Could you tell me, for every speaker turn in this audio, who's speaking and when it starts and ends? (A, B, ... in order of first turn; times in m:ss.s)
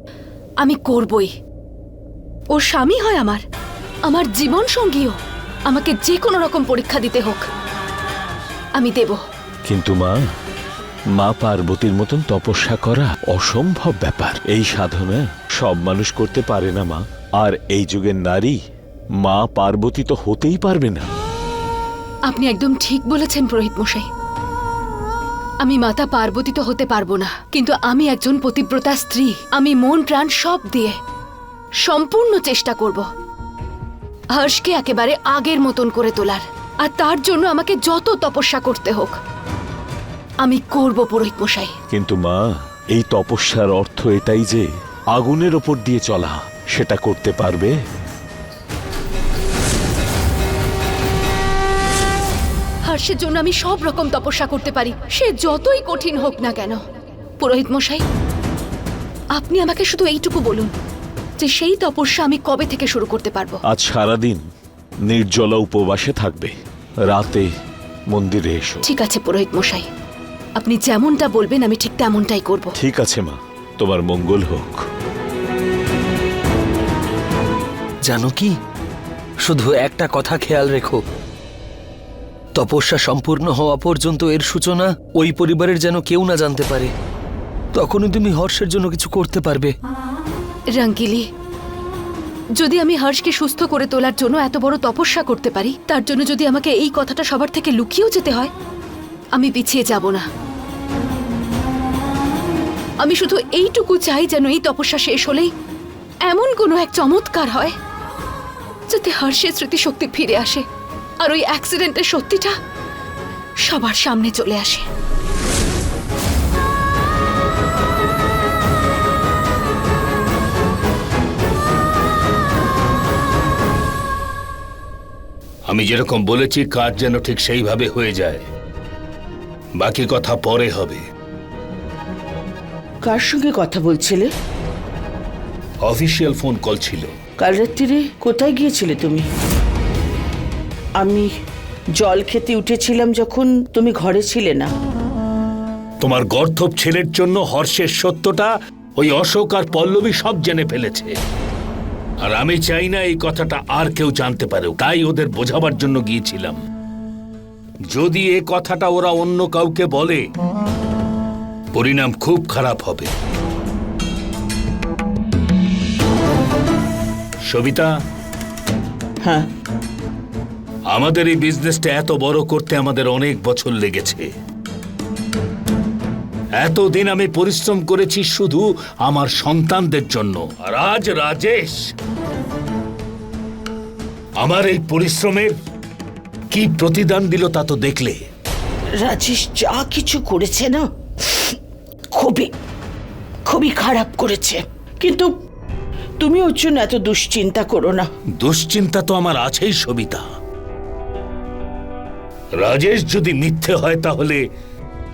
0:00.6-0:01.3 A
0:02.5-0:03.4 A
0:04.1-0:07.4 A
0:08.8-0:09.2 A
0:09.7-0:10.2 B
0:11.2-0:18.6 B
0:19.2-0:21.1 B
0:22.3-0:24.1 A
0:25.6-0:31.0 A
0:31.9-0:33.1 A
0:34.3-0:39.2 A
0:40.4-0:41.8 A
0:41.9-0:42.4 B
0:42.9-0:44.6 B
0:45.2-0:47.7 B
0:52.9-0:56.8 A
0:57.4-0:58.0 A
0:59.4-1:00.7 A
1:01.4-1:03.6 A
1:03.7-1:04.4 B
1:05.1-1:06.5 B
1:07.1-1:07.4 B
1:08.1-1:08.8 B
1:08.8-1:09.9 A
1:10.6-1:12.7 A
1:12.8-1:14.8 B
1:18.0-1:18.5 C
1:19.4-1:21.0 C
1:22.6-1:26.9 C
1:27.7-1:29.7 C
1:30.8-1:31.3 A
1:32.6-1:38.5 A
1:39.3-1:40.3 A
1:43.0-1:45.5 A
1:46.3-1:47.8 A
1:48.9-1:50.6 A
1:51.2-1:52.5 A
1:53.7-1:54.9 A
2:05.7-2:08.4 D
2:09.8-2:11.0 D
2:13.0-2:14.3 E
2:15.8-2:17.1 D
2:17.4-2:19.3 E
2:21.0-2:21.3 E
2:22.0-2:24.7 E
2:26.0-2:31.2 D
2:32.2-2:36.6 D
2:37.9-2:40.2 D
2:41.8-2:43.1 D
2:47.5-2:47.9 D
2:50.9-2:54.3 D
2:56.6-3:01.8 D
3:04.4-3:05.5 D
3:06.5-3:08.2 D
3:09.0-3:11.5 E
3:12.2-3:12.5 E
3:13.5-3:15.3 E
3:16.2-3:18.1 E
3:18.4-3:20.2 D
3:22.6-3:24.4 D